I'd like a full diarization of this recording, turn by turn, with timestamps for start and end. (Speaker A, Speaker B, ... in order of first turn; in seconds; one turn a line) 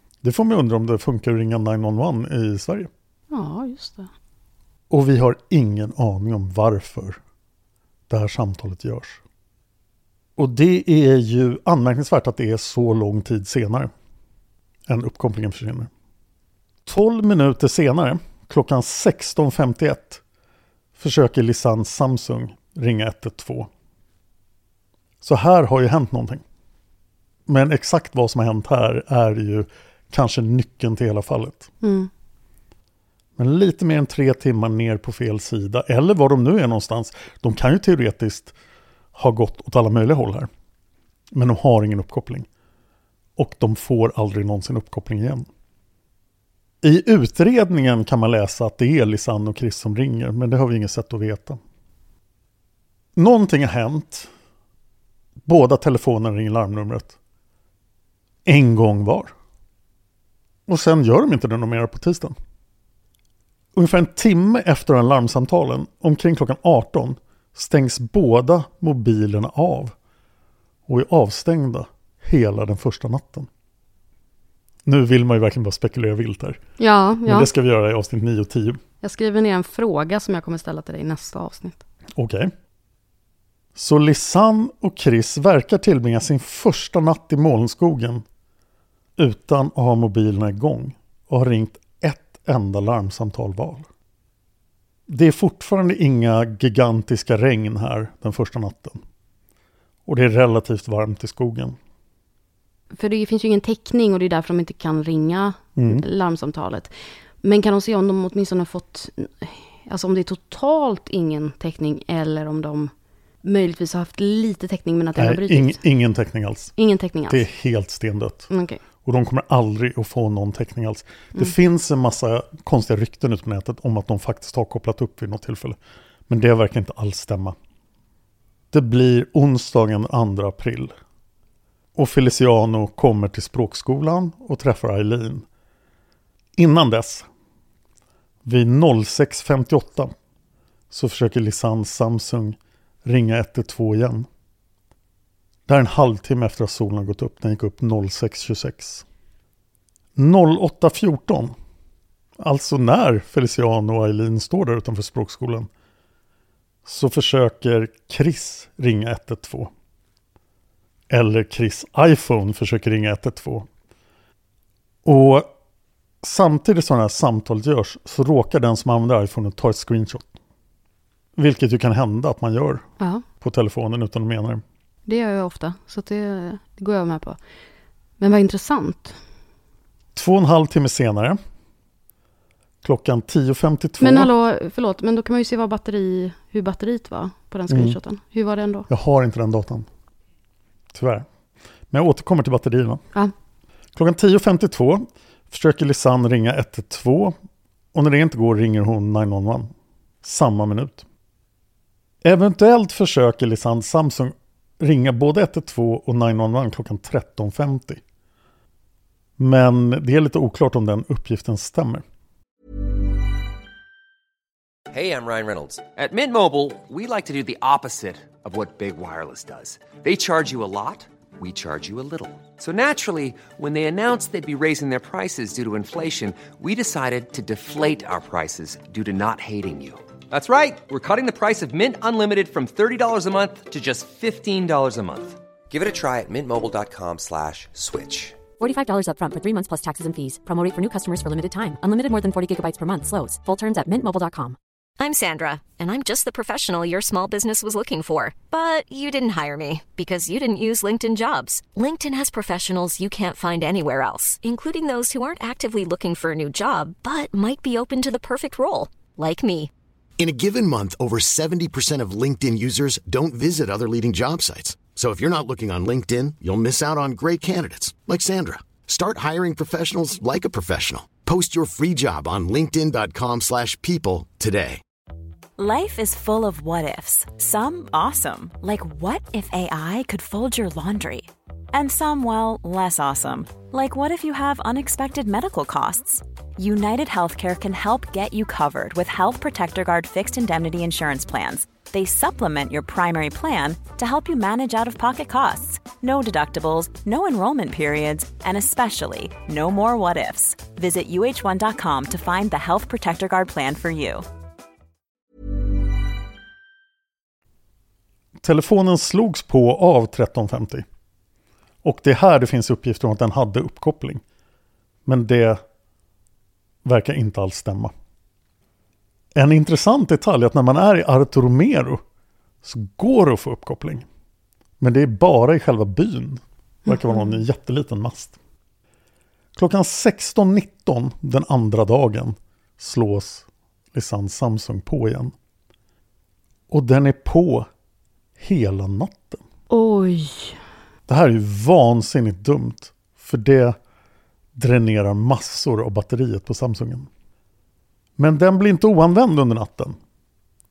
Speaker A: 0.2-2.9
Speaker B: 3.3-4.1
Speaker A: 4.9-7.2
Speaker A: 8.1-9.2
Speaker A: 10.4-13.9
Speaker A: 14.9-15.9
Speaker A: 16.9-20.2
Speaker A: 21.0-23.7
Speaker A: 25.2-26.4
Speaker A: 27.5-31.7
Speaker B: 31.8-32.1
Speaker A: 33.4-38.5
Speaker A: 39.1-40.5
Speaker A: 41.3-42.5
Speaker A: 43.4-45.5
Speaker A: 46.8-51.6
Speaker A: 53.1-54.3
Speaker A: 55.4-57.1
Speaker A: 58.4-59.3
Speaker A: 60.7-62.4
Speaker A: 63.7-69.9
Speaker A: 70.9-73.5
Speaker A: 74.8-76.6
Speaker B: 76.8-77.5
Speaker A: 77.2-78.8
Speaker B: 79.0-81.8
Speaker A: 82.1-82.5
Speaker A: 83.8-88.2
Speaker A: 89.2-93.9
Speaker A: 95.1-99.0
Speaker A: 100.0-101.8
Speaker B: 103.0-106.9
Speaker A: 105.8-106.0
Speaker B: 107.4-112.9
Speaker B: 113.4-115.8
Speaker A: 115.2-116.7
Speaker B: 116.8-117.4
Speaker A: 117.3-118.5
Speaker B: 118.5-118.8
Speaker A: 119.0-127.5
Speaker A: 128.7-130.9
Speaker A: 131.9-135.4
Speaker A: 136.6-137.3
Speaker A: 138.4-140.1
Speaker A: 140.9-144.3
Speaker A: 145.7-149.0
Speaker A: 150.2-151.5
Speaker A: 152.4-155.7
Speaker A: 156.8-159.7
Speaker A: 161.1-163.7
Speaker A: 165.0-165.5
Speaker A: 166.2-170.3
Speaker A: 171.3-172.9
Speaker A: 173.4-174.6
Speaker B: 175.1-177.4
Speaker B: 178.2-179.2
Speaker A: 180.1-181.4
Speaker A: 182.8-184.3
Speaker B: 184.0-188.9
Speaker A: 187.7-188.0
Speaker A: 188.9-189.9
Speaker A: 190.9-191.3
Speaker A: 191.9-193.0
Speaker A: 193.9-197.3
Speaker A: 197.9-199.7
Speaker A: 200.2-201.0
Speaker A: 202.2-208.0
Speaker A: 209.4-212.0
Speaker C: 214.9-238.4
Speaker D: 238.6-244.6
Speaker E: 245.0-259.7
Speaker F: 260.2-274.8
Speaker G: 275.6-304.2
Speaker A: 308.4-310.9
Speaker A: 311.8-314.2
Speaker A: 315.1-315.6
Speaker A: 316.8-317.9
Speaker A: 319.3-322.0
Speaker A: 322.6-324.1
Speaker A: 324.8-328.3
Speaker B: 326.9-327.4
Speaker A: 329.5-335.3
Speaker A: 336.7-337.7
Speaker A: 338.4-339.4
Speaker B: 339.7-340.6
Speaker A: 341.1-343.8
Speaker A: 344.5-347.1
Speaker A: 348.2-350.0